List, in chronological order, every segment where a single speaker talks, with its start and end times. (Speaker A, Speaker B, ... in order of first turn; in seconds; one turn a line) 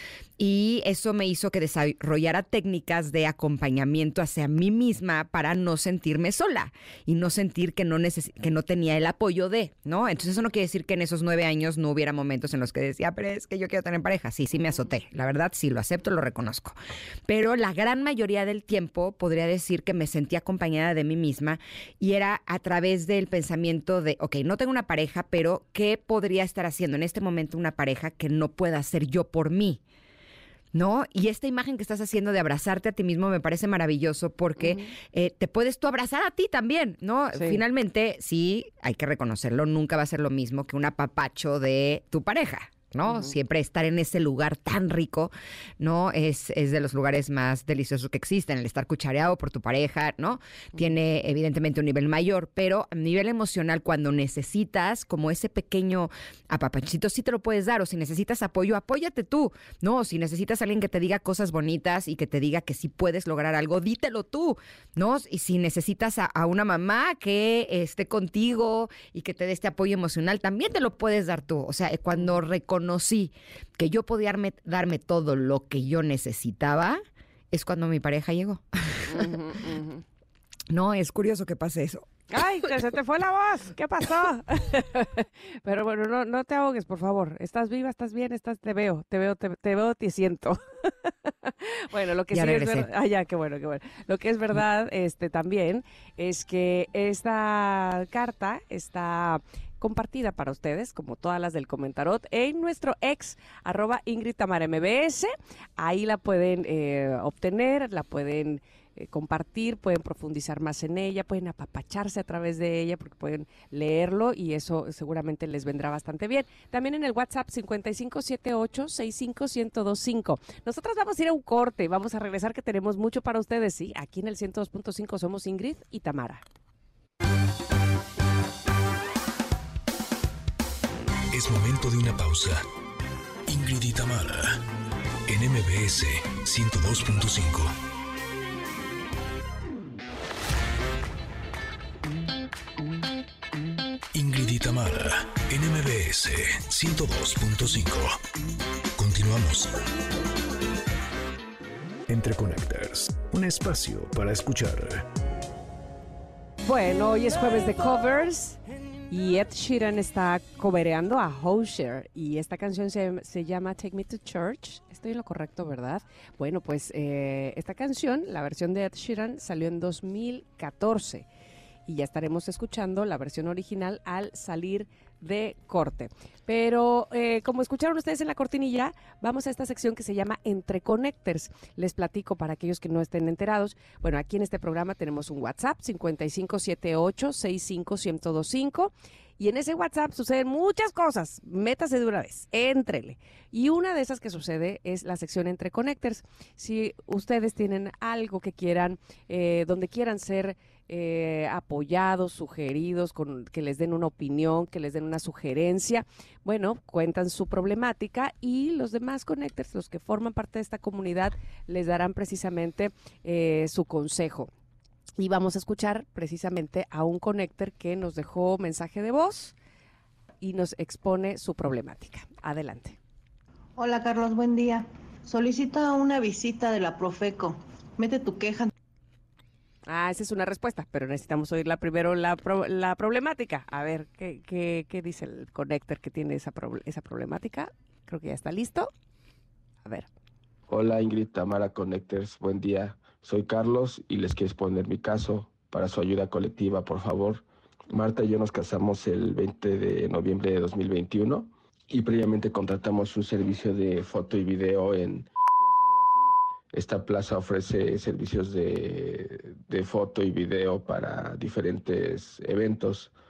Speaker A: 0.4-29.8
Speaker A: 30.7-79.4
Speaker B: 34.6-34.9
Speaker B: 37.3-37.6
Speaker B: 43.0-43.3
Speaker B: 79.1-80.0
Speaker A: 80.7-82.2
Speaker B: 82.3-126.4
Speaker A: 92.3-92.9
Speaker C: 131.3-132.6
Speaker C: 133.5-134.6
Speaker C: 135.3-137.8
Speaker C: 144.1-148.2
Speaker C: 148.9-149.7
Speaker C: 152.1-155.0
Speaker B: 156.6-158.6
Speaker B: 159.1-171.2
Speaker B: 171.9-214.5
Speaker B: 215.2-219.5
Speaker B: 220.4-223.0
Speaker D: 223.8-228.7
Speaker B: 229.8-238.9
Speaker E: 240.7-263.1